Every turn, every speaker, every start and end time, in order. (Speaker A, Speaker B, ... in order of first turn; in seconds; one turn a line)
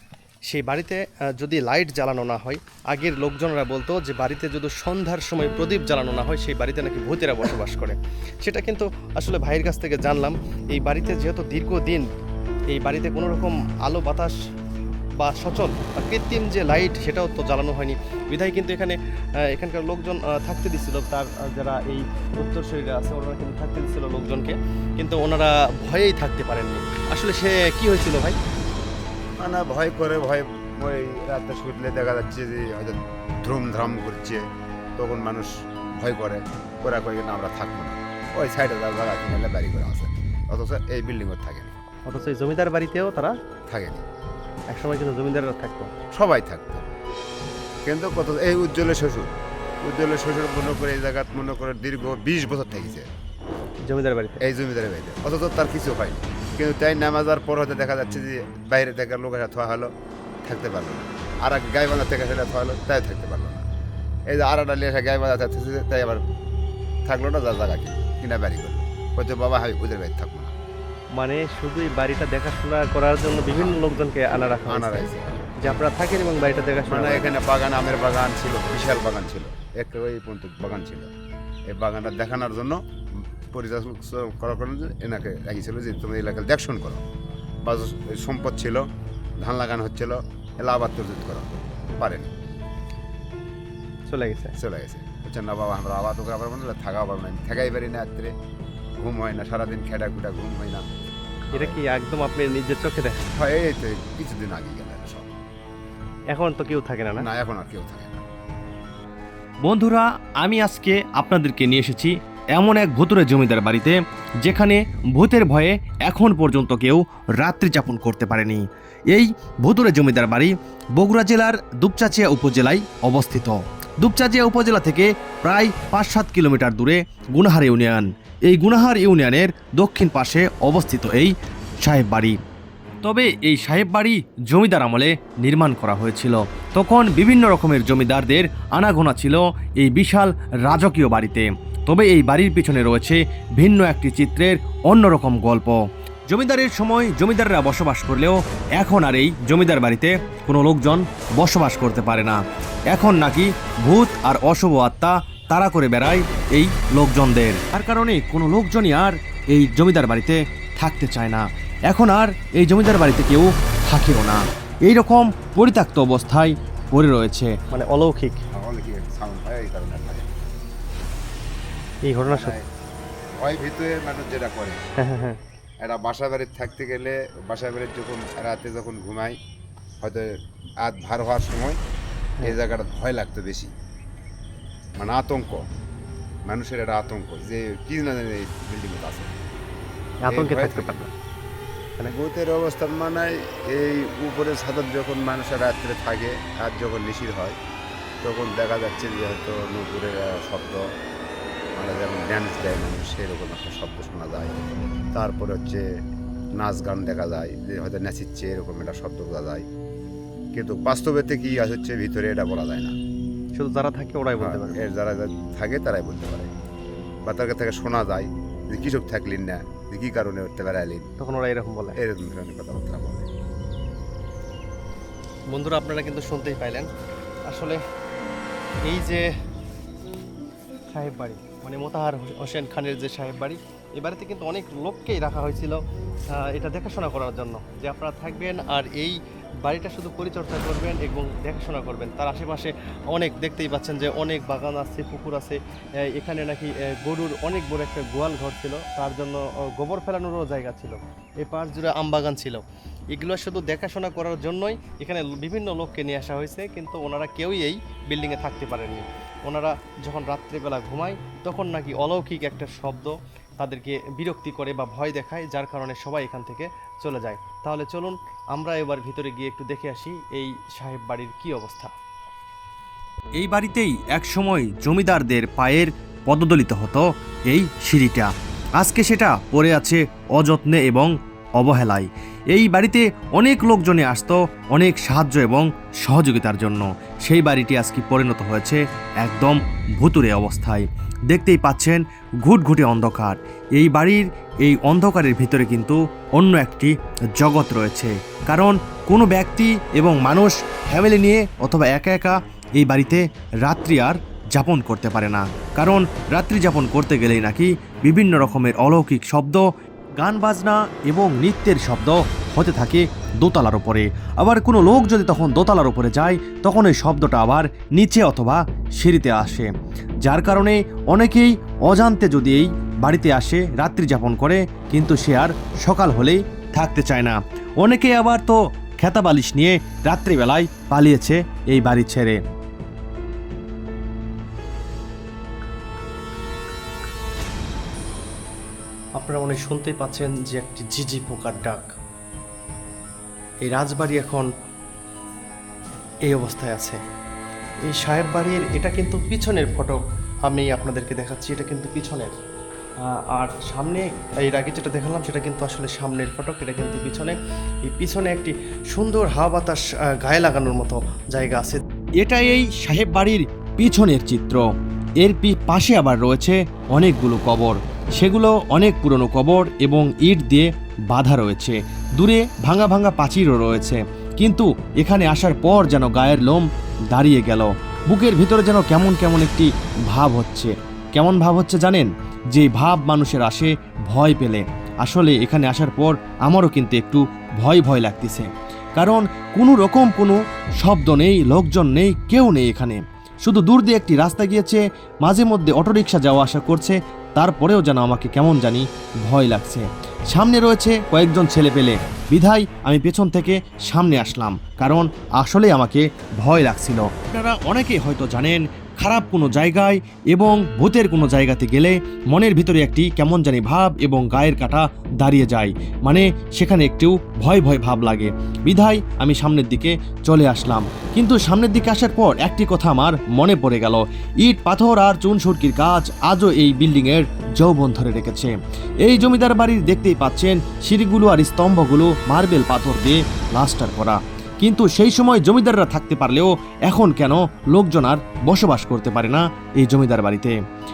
Speaker A: 0.5-12.1
Speaker A: 12.7-14.3
Speaker A: 15.2-28.4
Speaker B: 29.4-34.4
Speaker B: 35.0-41.7
Speaker A: 42.1-43.3
Speaker B: 43.7-44.0
Speaker A: 44.7-45.9
Speaker B: 46.1-46.8
Speaker B: 47.8-53.1
Speaker A: 53.8-54.4
Speaker B: 54.4-59.9
Speaker B: 60.4-63.6
Speaker B: 64.3-66.2
Speaker B: 67.0-70.5
Speaker A: 71.1-75.1
Speaker B: 73.5-73.8
Speaker B: 74.6-75.4
Speaker A: 75.6-77.2
Speaker B: 76.9-81.1
Speaker B: 81.7-82.8
Speaker B: 83.4-87.0
Speaker B: 87.6-88.8
Speaker B: 89.4-92.3
Speaker A: 94.1-94.5
Speaker B: 94.6-98.3
Speaker B: 99.0-100.8
Speaker B: 101.5-101.8
Speaker A: 101.5-103.2
Speaker B: 103.3-105.4
Speaker A: 106.3-107.2
Speaker B: 107.2-108.2
Speaker C: 109.6-132.4
Speaker C: 133.0-167.5
Speaker A: 167.7-168.4
Speaker B: 168.5-170.3
Speaker A: 172.1-172.5
Speaker B: 172.3-172.6
Speaker B: 173.4-174.8
Speaker A: 175.0-175.4
Speaker B: 175.8-179.3
Speaker B: 180.0-180.3
Speaker B: 180.8-181.8
Speaker B: 182.4-183.7
Speaker B: 185.0-185.6
Speaker B: 186.4-189.3
Speaker A: 190.2-191.1
Speaker B: 190.3-191.0
Speaker B: 192.1-197.6
Speaker B: 198.2-200.8
Speaker B: 201.7-205.8
Speaker B: 206.6-209.6
Speaker B: 210.5-212.9
Speaker A: 213.5-214.8
Speaker B: 214.4-216.5
Speaker B: 217.2-221.1
Speaker A: 221.2-222.0
Speaker B: 222.0-223.3
Speaker A: 225.5-226.9
Speaker A: 227.4-227.8
Speaker A: 228.8-229.3
Speaker A: 230.9-271.9
Speaker C: 273.4-309.6
Speaker C: 310.2-319.7
Speaker C: 320.2-332.4
Speaker A: 339.1-341.9
Speaker A: 343.6-344.5
Speaker A: 346.2-347.0
Speaker A: 347.8-352.3
Speaker A: 353.0-361.8
Speaker C: 362.2-364.6
Speaker C: 365.2-428.5
Speaker C: 429.0-440.5